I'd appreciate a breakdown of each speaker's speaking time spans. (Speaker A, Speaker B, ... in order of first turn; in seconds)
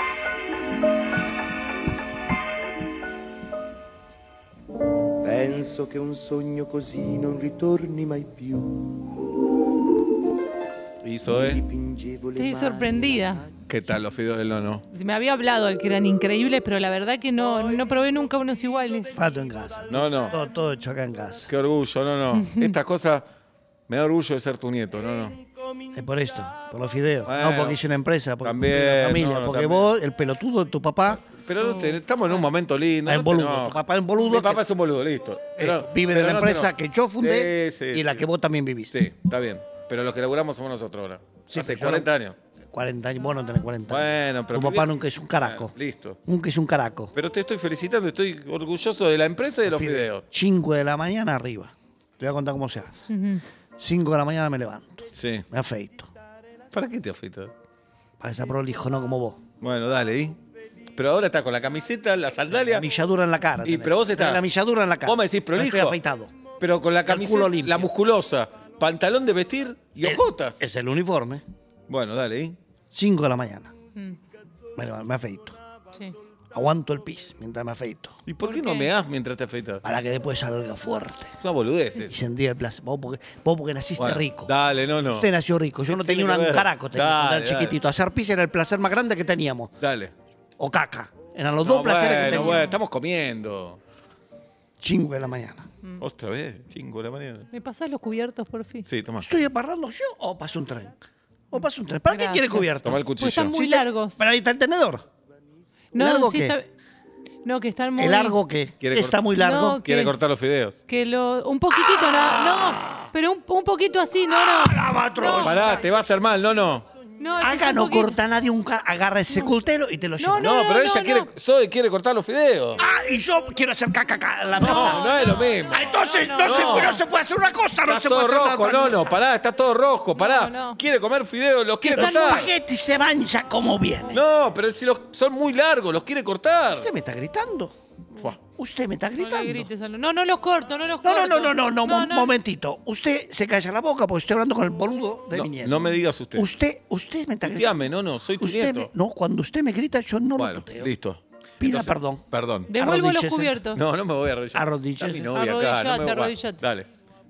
Speaker A: 5.2-9.2, 11.3-13.4
Speaker B: 11.0-11.6, 13.7-14.8, 19.9-20.4, 21.5-23.2, 23.9-25.4, 27.3-27.8, 28.4-29.9, 31.3-38.3, 38.9-42.4, 43.9-46.2, 47.1-50.2, 55.2-55.5, 56.7-57.5, 59.6-60.4, 61.0-62.9, 63.6-64.4, 65.0-66.0, 66.6-70.6, 71.9-72.6, 78.3-79.8, 81.4-82.1, 84.0-85.3, 85.9-87.8, 89.8-90.1, 91.6-93.8, 96.0-97.5, 98.8-99.3, 102.8-103.6, 108.8-109.2, 109.8-110.8, 115.4-116.8, 120.4-122.8, 124.6-127.0, 127.8-132.5, 134.1-136.9, 145.3-146.5, 147.4-148.9, 150.4-152.7, 153.7-156.9
Speaker C: 12.4-13.4, 14.9-19.1, 22.4-22.7, 31.6-32.0, 53.1-53.4, 78.4-78.9, 92.2-92.8, 97.5-98.9, 102.1-104.2, 105.9-106.7, 107.4-108.4, 109.4-110.1, 110.9-115.8, 117.2-118.2, 120.2-121.3, 124.6-127.0, 130.2-130.8, 131.9-132.4, 139.2-142.3, 152.7-153.8, 155.3-156.6
Speaker D: 19.1-21.5, 25.9-31.2, 33.0-34.6, 35.6-39.0, 41.5-42.1, 42.7-45.7, 46.3-47.1, 49.7-53.1, 53.8-56.1, 58.2-59.4, 62.6-66.3, 67.0-67.9, 70.0-71.4, 72.9-73.7, 74.8-75.6, 76.5-78.2, 79.8-81.4, 82.0-84.5, 85.0-89.7, 90.6-92.7, 94.8-95.7, 99.2-101.0, 101.5-105.0, 106.0-106.6, 108.0-109.9, 111.7-113.1, 114.3-115.7, 117.4-120.6, 122.8-125.1, 125.7-129.1, 131.8-134.2, 136.8-137.7, 138.6-139.7, 141.0-150.9, 151.6-153.6, 154.5-155.3